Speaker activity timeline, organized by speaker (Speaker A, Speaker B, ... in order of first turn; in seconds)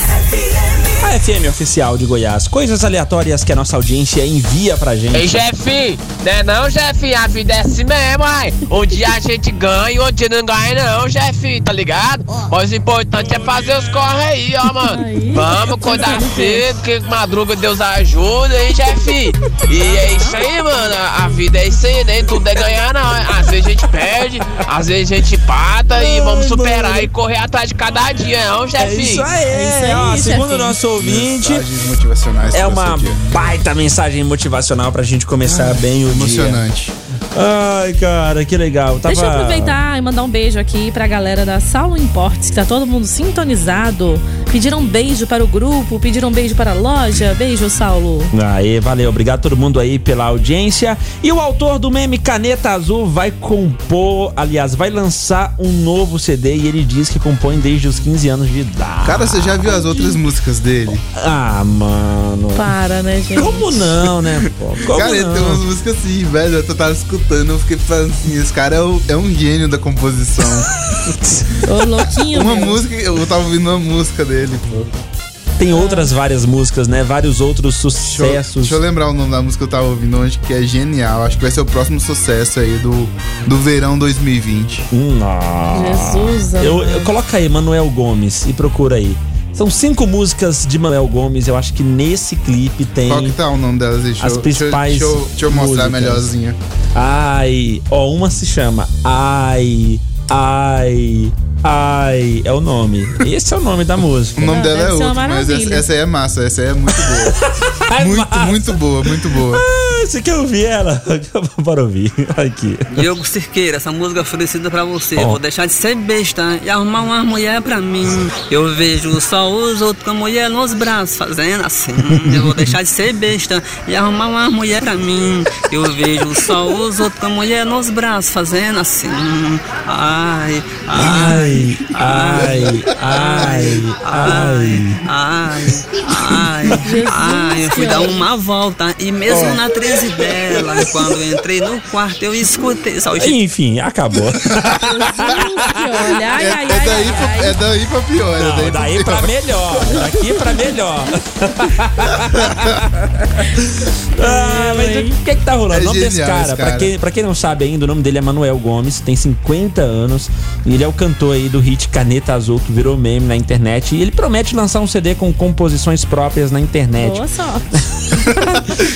Speaker A: 1.0-5.4, 28.8-31.7, 32.5-36.6, 37.3-39.8, 48.3-59.8, 61.1-62.7, 63.4-65.6, 75.6-78.8, 84.9-93.4, 94.2-96.3, 97.0-104.6, 107.2-113.0, 130.9-135.0, 143.2-145.5, 148.4-152.8, 154.1-167.2
Speaker B: 5.1-29.3
Speaker C: 14.9-16.7, 19.8-20.4, 26.0-27.0, 29.5-30.8, 39.1-48.3, 62.5-63.8, 71.6-72.8, 75.7-76.1, 85.7-87.1, 104.5-105.8, 136.8-138.2, 144.8-147.6, 154.2-155.2, 167.0-167.8
Speaker D: 31.0-33.3, 35.5-36.9, 59.0-61.0, 64.8-70.7, 72.3-74.9, 78.1-84.9, 93.1-96.6, 104.4-107.4, 108.0-109.6, 133.2-133.6, 146.3-149.3, 155.7-156.9
Speaker E: 112.9-132.6, 133.1-143.4